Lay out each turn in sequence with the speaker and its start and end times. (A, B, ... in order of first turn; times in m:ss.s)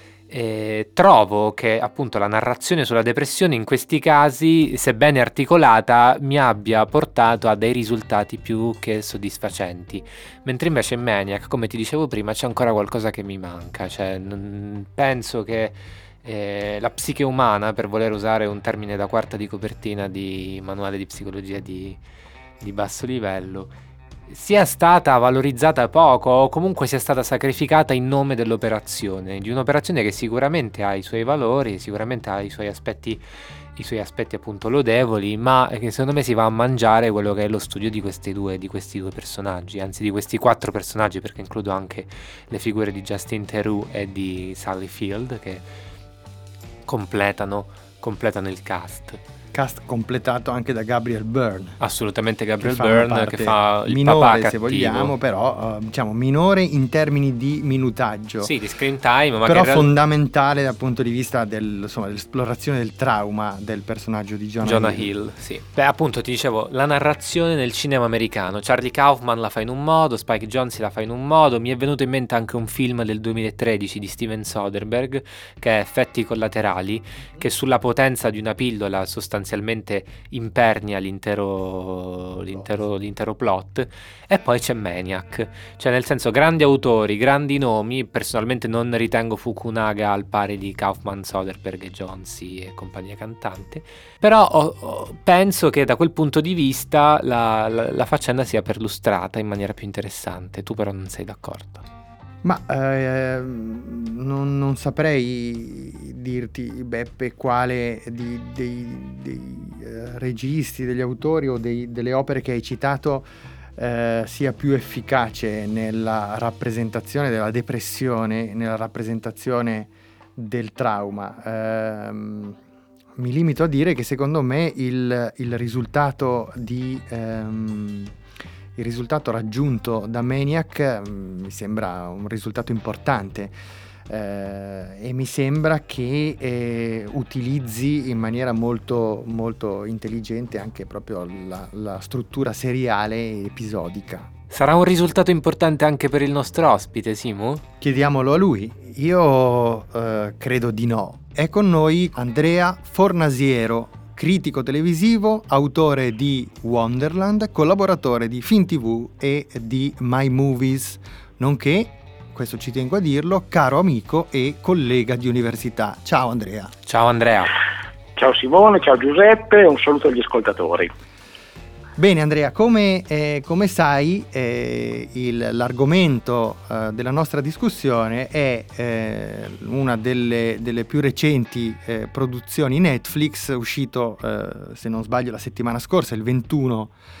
0:00.3-0:22.0 A
0:22.6-0:23.7 A
0:24.3-0:33.2 A
0:33.8-0:45.6 A
0:46.9-0:49.2 A
0:49.5-0:51.8 B
0:51.8-0:55.1 A
0:52.6-0:58.5 B
0:58.4-0:59.9 A
0:59.4-1:05.1 B
1:04.6-1:41.8 A
1:42.4-2:02.6 B
2:03.2-2:08.1 B
2:08.8-2:13.5 B
2:14.1-2:24.3 B
2:24.5-2:27.6 A
2:27.8-2:46.7 B
2:46.8-2:47.5 A
2:48.2-2:50.9 C
2:52.0-3:06.9 B